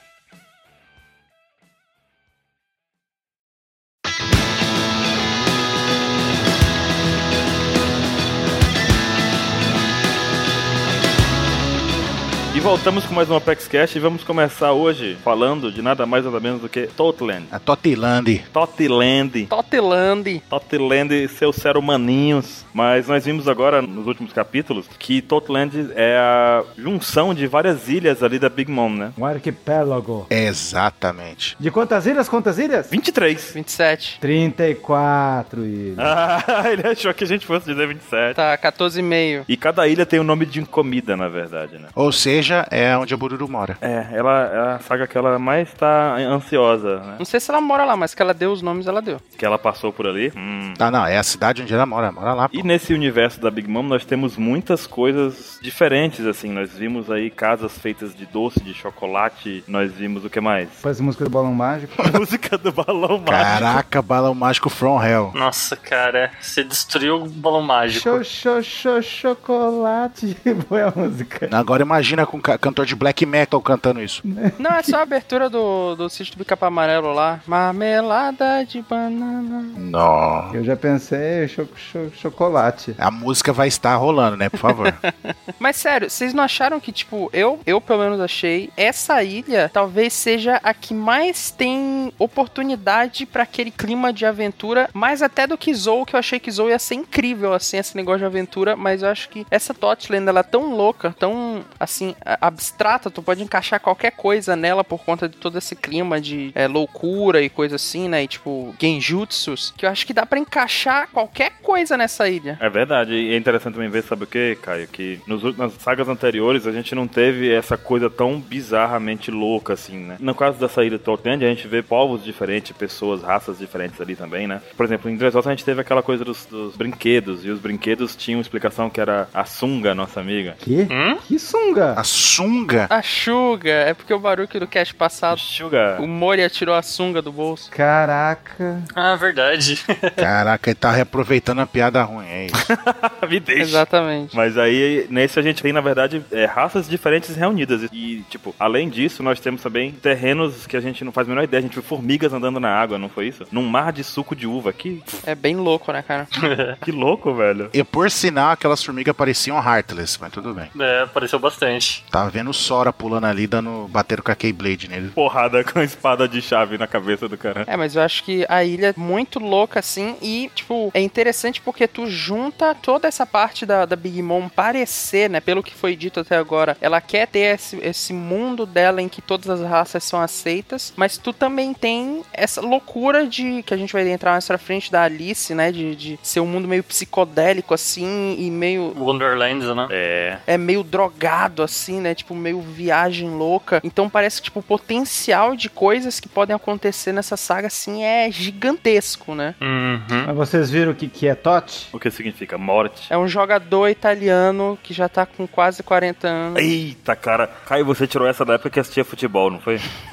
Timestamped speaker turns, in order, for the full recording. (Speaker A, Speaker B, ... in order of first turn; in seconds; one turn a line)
Speaker A: 12.5-17.5
Speaker B: 17.5-18.5
Speaker A: 18.5-19.5
Speaker C: 19.5-20.4
Speaker A: 20.5-29.2
Speaker D: 29.2-30.3
Speaker B: 30.3-31.6
Speaker D: 31.6-32.9
Speaker A: 32.9-33.6
Speaker C: 33.5-34.2
Speaker D: 34.2-36.1
Speaker A: 36.0-38.4
Speaker C: 38.4-39.5
Speaker A: 39.5-41.9
Speaker B: 42.0-43.8
Speaker A: 43.8-47.2
Speaker C: 47.2-49.2
Speaker A: 49.4-50.8
Speaker B: 50.8-52.7
Speaker A: 52.5-60.8
Speaker D: 60.8-61.9
Speaker A: 62.0-63.8
Speaker B: 63.3-65.3
Speaker E: 65.3-68.2
Speaker D: 67.9-71.5
Speaker B: 71.5-74.2
Speaker D: 74.2-75.0
Speaker C: 74.6-79.8
Speaker B: 79.8-80.5
Speaker D: 80.5-83.0
Speaker B: 83.0-85.0
Speaker C: 85.6-112.6
Speaker A: 112.6-130.6
Speaker D: 130.6-132.0
Speaker E: 130.9-131.2
Speaker B: 131.9-132.9
Speaker C: 132.9-135.4
Speaker A: 135.3-136.1
Speaker C: 136.0-137.7
Speaker D: 137.7-138.9
Speaker E: 138.9-140.3
Speaker B: 140.2-142.6
Speaker A: 142.6-155.2
Speaker C: 143.6-144.3
Speaker C: 155.2-156.3
Speaker E: 156.3-156.8
Speaker A: 156.8-157.7
Speaker B: 157.7-160.7
Speaker E: 160.7-162.0
Speaker B: 162.1-165.2
Speaker A: 165.2-167.7
Speaker C: 167.7-189.0
Speaker E: 188.9-189.9
Speaker A: 189.9-190.4
Speaker C: 190.5-199.6
Speaker E: 199.6-200.3
Speaker D: 200.2-201.9
Speaker A: 201.9-203.1
Speaker C: 203.1-206.7
Speaker A: 206.6-209.9